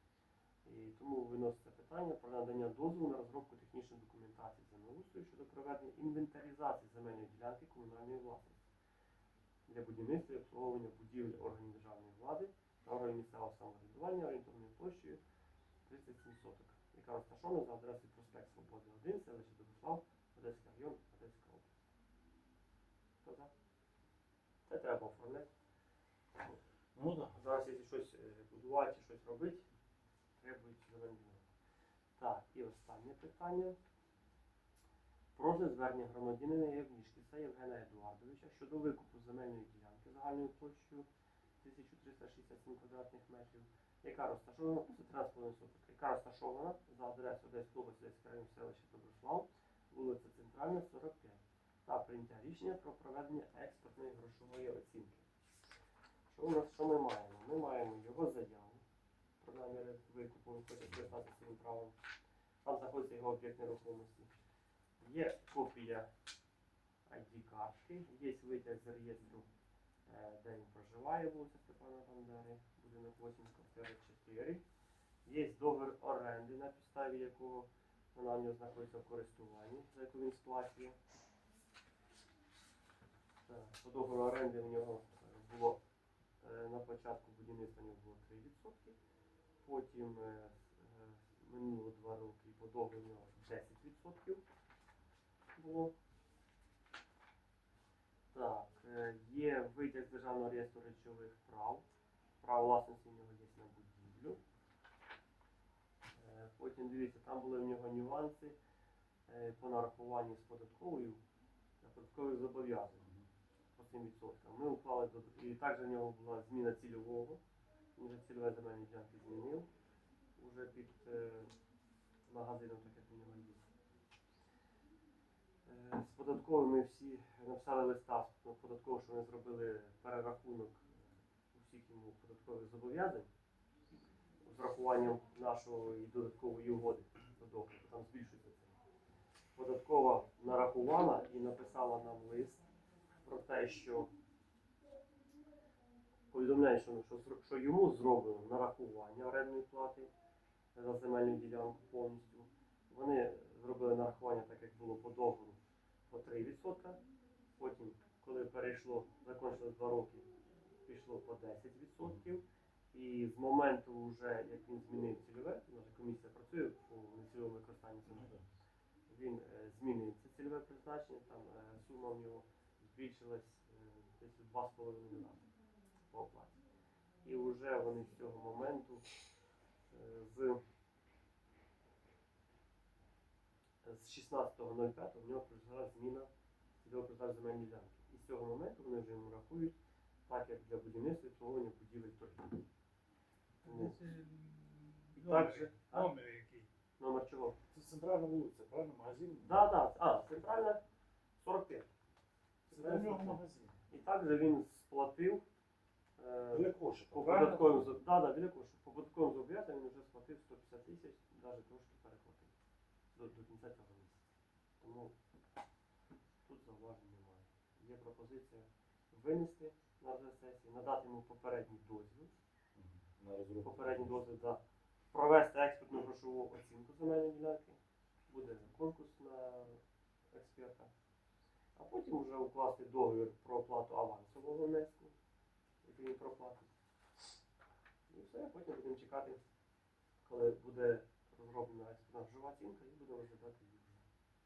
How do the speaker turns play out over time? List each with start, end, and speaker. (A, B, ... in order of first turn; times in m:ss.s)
0:00.6-0:08.6 A
0:09.7-0:15.2 A
0:15.8-0:21.7 A
0:23.2-0:23.5 A
0:24.7-0:25.5 A
0:27.0-0:27.4 B
0:27.4-0:29.7 A
0:30.4-0:31.5 A
0:32.2-0:33.8 A
0:35.4-0:41.1 A
0:41.6-0:55.3 A
0:56.3-0:58.8 A
0:59.4-1:02.0 A
1:02.6-1:04.3 A
1:05.0-1:06.1 A
1:07.1-1:09.5 A
1:10.1-1:14.6 A
1:15.2-1:21.0 A
1:23.5-1:25.8 A
1:26.4-1:29.0 A
1:29.6-1:34.4 A
1:35.6-1:35.9 A
1:38.3-1:41.8 A
1:42.4-1:44.4 A
1:46.1-1:48.6 A
1:49.3-1:51.2 A
1:51.8-1:53.1 A
1:53.0-1:53.3 B
1:53.8-1:57.4 A
1:58.0-1:59.7 A
2:00.4-2:01.5 A
2:02.3-2:03.7 A
2:05.7-2:13.3 A
2:14.4-2:18.8 A
2:19.6-2:22.6 A
2:23.2-2:24.1 A
2:26.3-2:30.1 A
2:30.8-2:35.6 A
2:36.1-2:37.0 A
2:37.6-2:40.3 A
2:40.9-2:48.3 A
2:48.1-2:48.4 B
2:49.1-2:55.5 A
2:56.1-2:56.6 A
2:57.2-2:59.1 A
2:59.9-3:00.6 A
3:03.8-3:06.3 A
3:06.8-3:09.8 A
3:10.3-3:12.6 A
3:13.6-3:16.7 C
3:13.6-3:14.0 A
3:15.2-3:16.1 A
3:17.0-3:17.6 A
3:17.7-3:19.7 B
3:19.4-3:20.8 A
3:21.4-3:21.9 A
3:22.7-3:25.4 A
3:22.7-3:23.8 B
3:26.2-3:32.5 A
3:26.5-3:28.0 B
3:33.2-3:34.2 A
3:34.8-3:35.1 A
3:36.4-3:42.4 A
3:42.8-3:44.2 B
3:43.6-3:44.6 A
3:45.1-3:49.8 A
3:50.3-3:50.9 A
3:51.8-3:55.1 A
3:55.8-3:56.7 A
3:58.1-3:59.4 A
4:00.2-4:04.0 A